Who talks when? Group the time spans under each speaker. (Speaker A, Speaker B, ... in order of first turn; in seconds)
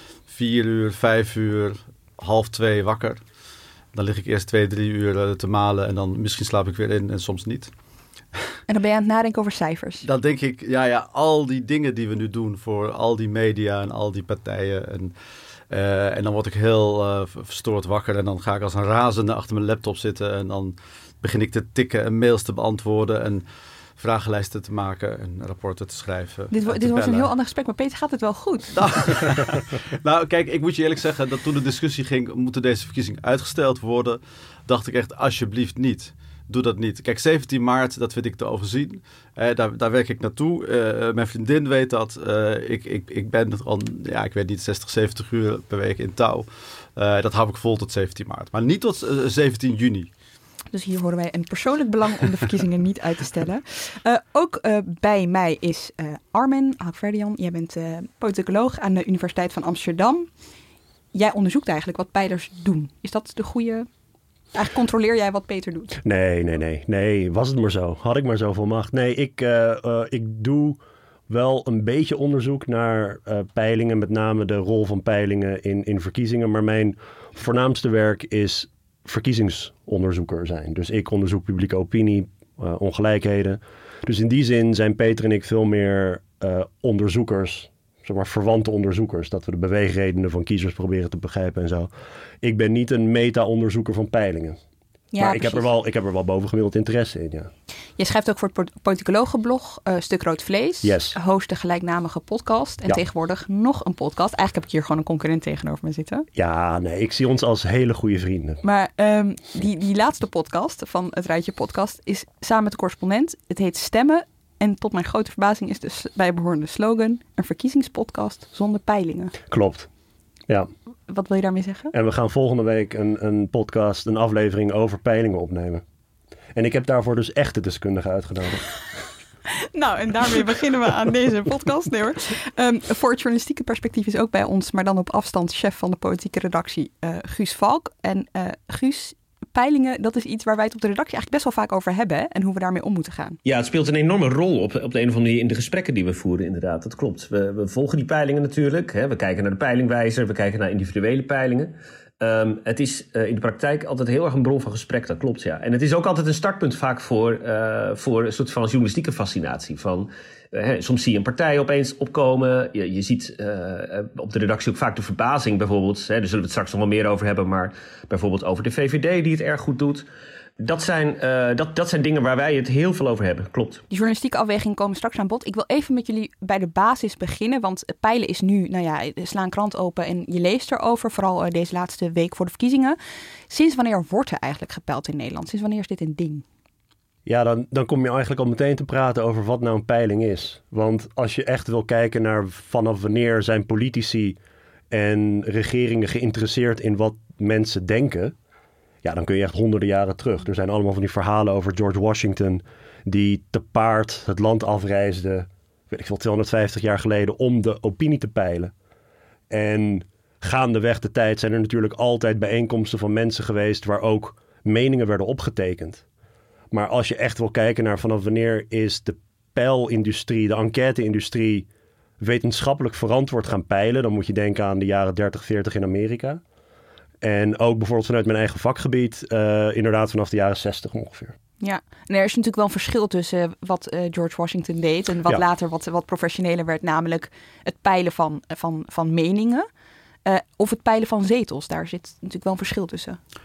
Speaker A: 0.3-3.2, 3.9-7.7, 10.0-15.1, 15.7-23.4, 24.0-27.3, 28.7-50.1
Speaker B: 8.7-10.1, 26.5-29.4, 50.7-60.3, 61.1-63.9, 64.5-66.0, 95.1-95.7, 98.0-106.3, 108.6-119.3, 121.1-121.9, 129.6-143.4, 173.9-183.0, 183.5-186.4, 231.6-239.7, 240.2-243.2
Speaker C: 66.0-91.9, 92.4-94.6, 95.2-97.5, 100.8-101.2, 106.3-108.6, 119.5-119.9, 121.9-125.8, 126.5-128.7, 187.3-194.4, 194.9-198.3, 199.0-208.7, 209.5-216.0, 216.7-221.7, 222.2-226.4, 227.2-231.3
Speaker D: 143.4-170.1, 170.6-173.8